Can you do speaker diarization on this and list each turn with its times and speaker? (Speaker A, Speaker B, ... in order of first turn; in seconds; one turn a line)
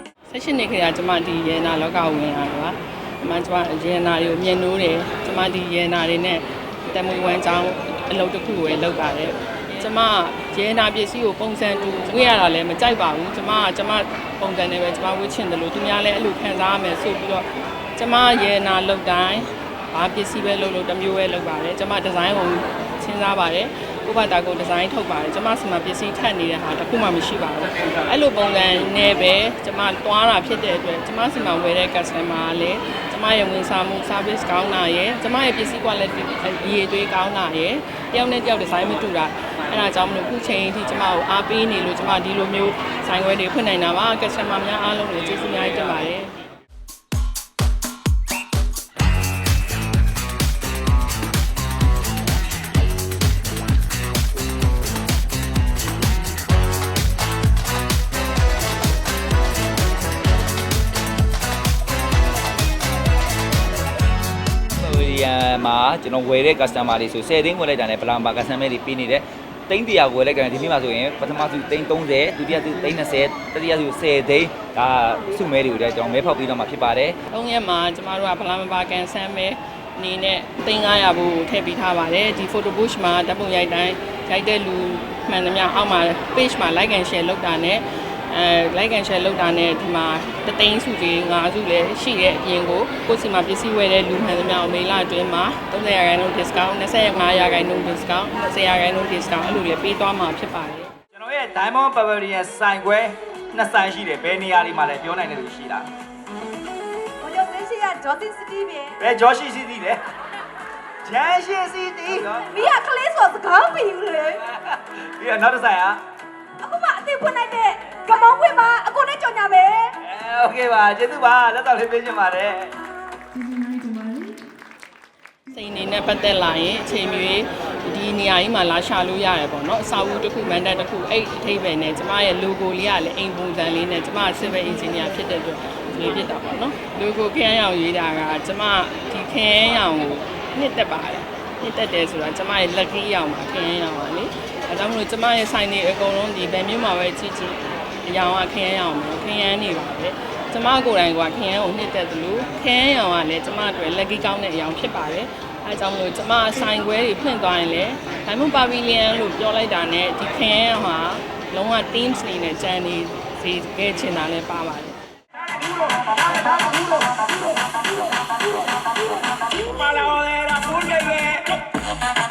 Speaker A: 0.3-46.4
Speaker B: 64.8-77.2
Speaker A: 77.3-100.9
Speaker C: 101.1-105.9
Speaker D: 107.2-108.9
Speaker C: 109.0-110.0
Speaker C: 111.0-112.6
Speaker D: 112.1-114.4
Speaker C: 114.5-116.0
Speaker D: 116.6-119.9
Speaker C: 120.0-122.7
Speaker A: 125.5-165.0